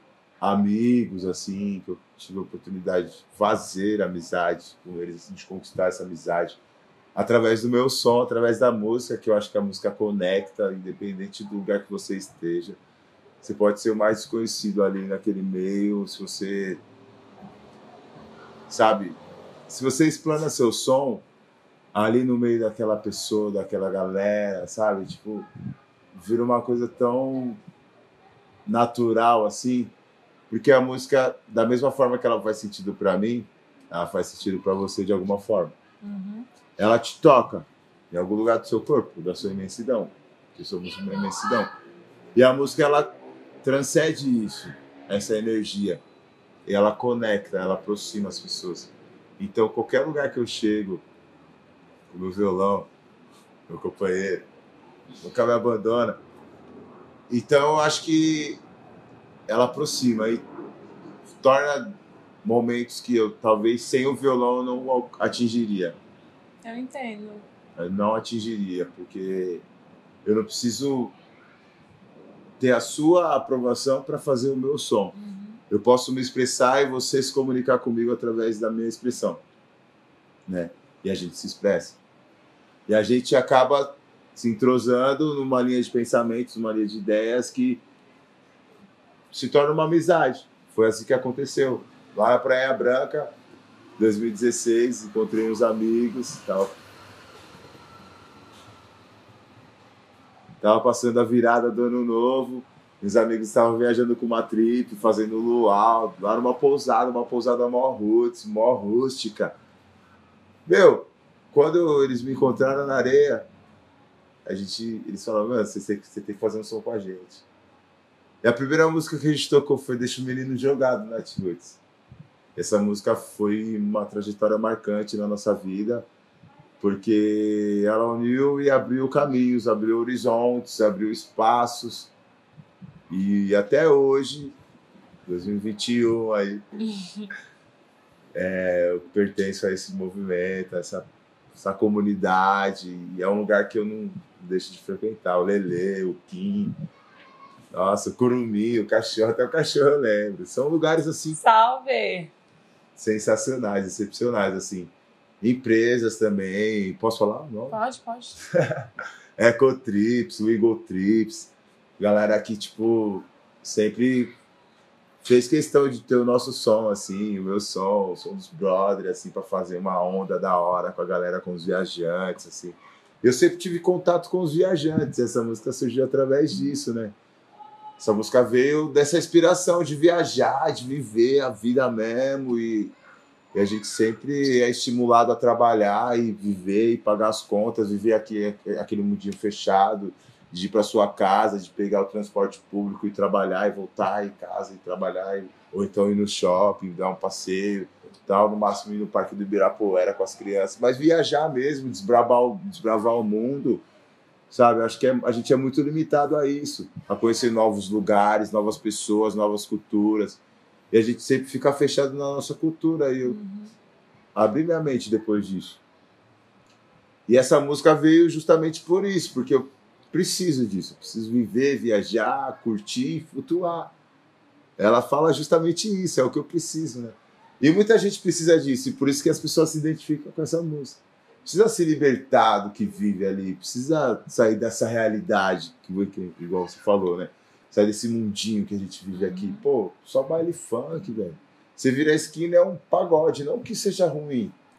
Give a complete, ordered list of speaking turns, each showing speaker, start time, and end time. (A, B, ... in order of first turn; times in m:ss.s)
0:00.4-0:06.6 A
0:07.2-0:12.8 A
0:13.4-0:16.8 A
0:18.7-0:21.2 A
0:21.9-0:25.5 A
0:26.1-0:27.6 A
0:28.7-0:29.9 A
0:30.5-0:35.8 A
0:36.0-0:36.5 B
0:36.8-0:41.7 A
0:42.4-0:43.1 A
0:43.6-0:46.0 A
0:46.7-0:51.0 A
0:52.1-0:52.9 A
0:53.7-0:54.5 A
0:55.2-0:56.2 A
0:57.3-0:58.6 A
0:59.5-1:00.4 A
1:01.3-1:06.0 A
1:06.6-1:07.4 B
1:07.8-1:09.6 A
1:10.2-1:11.1 A
1:12.6-1:15.2 A
1:15.1-1:15.6 B
1:15.7-1:19.4 A
1:20.5-1:22.0 A
1:22.9-1:27.8 A
1:29.3-1:33.3 A
1:34.0-1:36.8 A
1:40.6-1:49.6 A
1:50.7-1:53.5 A
1:54.4-1:57.4 A
1:58.4-2:01.8 A
2:02.6-2:06.1 A
2:06.8-2:12.1 A
2:13.1-2:14.6 A
2:15.3-2:16.6 A
2:16.8-2:17.3 B
2:18.3-2:26.8 A
2:27.7-2:31.4 A
2:31.3-2:32.3 B
2:33.0-2:37.8 A
2:37.7-2:38.4 B
2:38.5-2:38.9 A
2:39.4-2:44.3 A
2:45.2-2:57.2 A
2:58.0-3:02.9 A
3:03.5-3:23.8 A
3:24.5-3:30.4 A
3:30.9-3:33.4 A
3:33.2-3:33.7 B
3:34.4-3:35.8 A
3:37.3-3:43.9 A
3:44.8-4:04.6 A
3:59.1-3:59.6 B